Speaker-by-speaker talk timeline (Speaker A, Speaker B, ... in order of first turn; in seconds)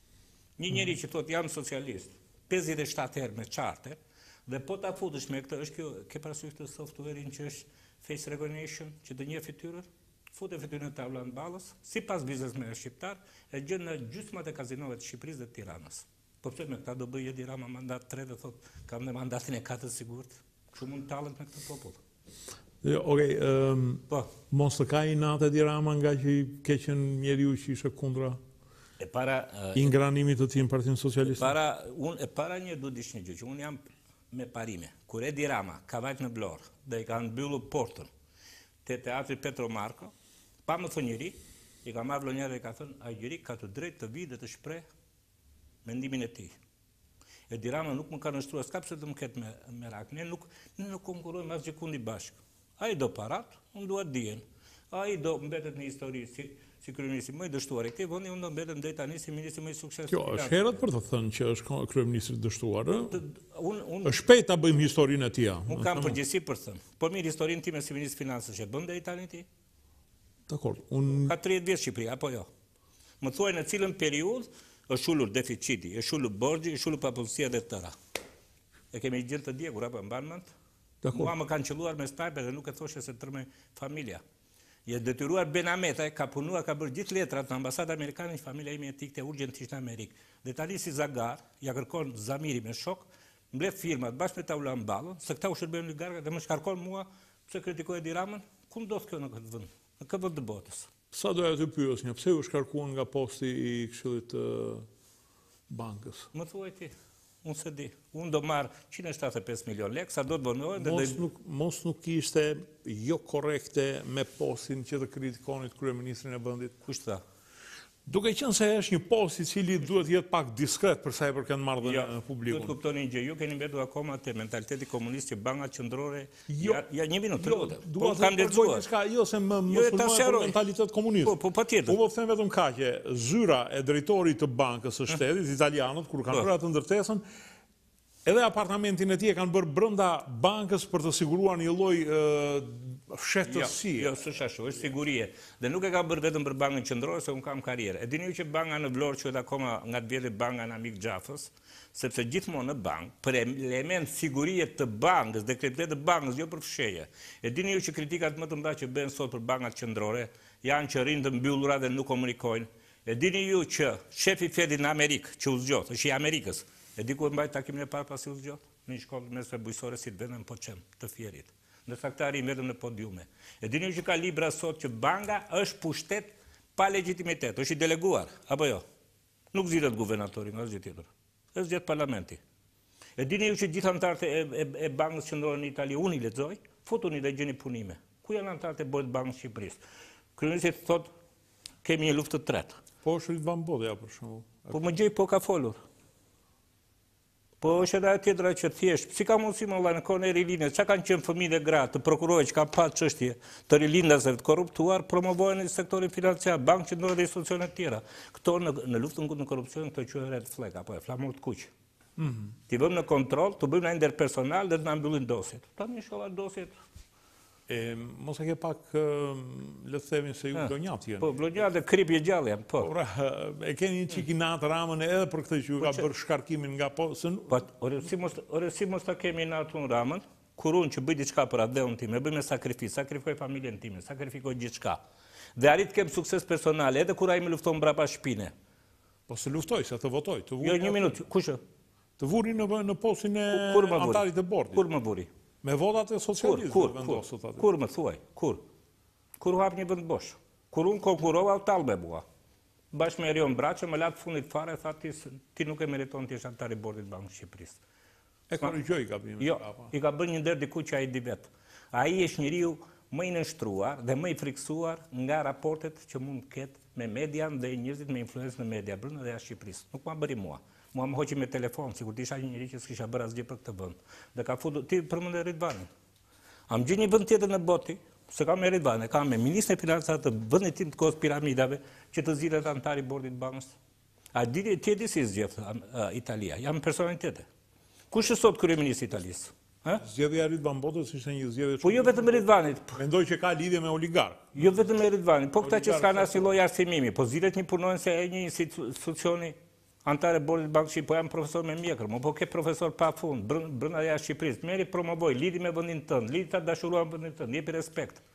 Speaker A: 0.6-22.0, 29.0-29.9, 31.2-38.1, 38.8-40.1, 40.7-44.8, 45.8-46.5, 47.5-60.8, 63.1-64.2, 65.7-69.5, 71.1-72.5, 73.2-77.9, 78.9-80.5, 81.1-84.2, 84.8-100.9, 106.3-111.2, 116.8-117.2, 121.8-128.8, 129.7-130.6, 131.2-132.0, 143.4-178.8, 179.5-182.4, 183.2-189.8, 190.3-191.1, 191.8-192.8, 194.7-195.8, 197.6-211.7, 212.7-216.7, 220.5-222.9, 225.8-226.1, 227.5-235.0, 235.6-238.5, 240.6-241.6, 243.5-245.3, 246.4-248.6, 249.4-252.2, 252.9-257.8, 259.4-275.9, 276.7-283.7, 284.3-287.5, 288.1-290.0, 291.8-293.0, 294.5-308.2
Speaker B: 22.8-28.4, 29.7-31.5, 60.1-63.2, 64.0-66.2, 70.5-71.3, 81.0-81.3, 101.1-104.8, 105.7-106.3, 110.8-116.8, 118.0-122.8, 126.5-126.8, 127.4-131.3, 131.9-137.2, 138.2-144.1, 193.0-194.7, 212.2-212.5, 217.7-221.3, 222.8-227.6, 239.3-241.2, 242.2-244.8, 245.6-247.7, 258.5-259.9, 290.0-294.6, 295.6-296.5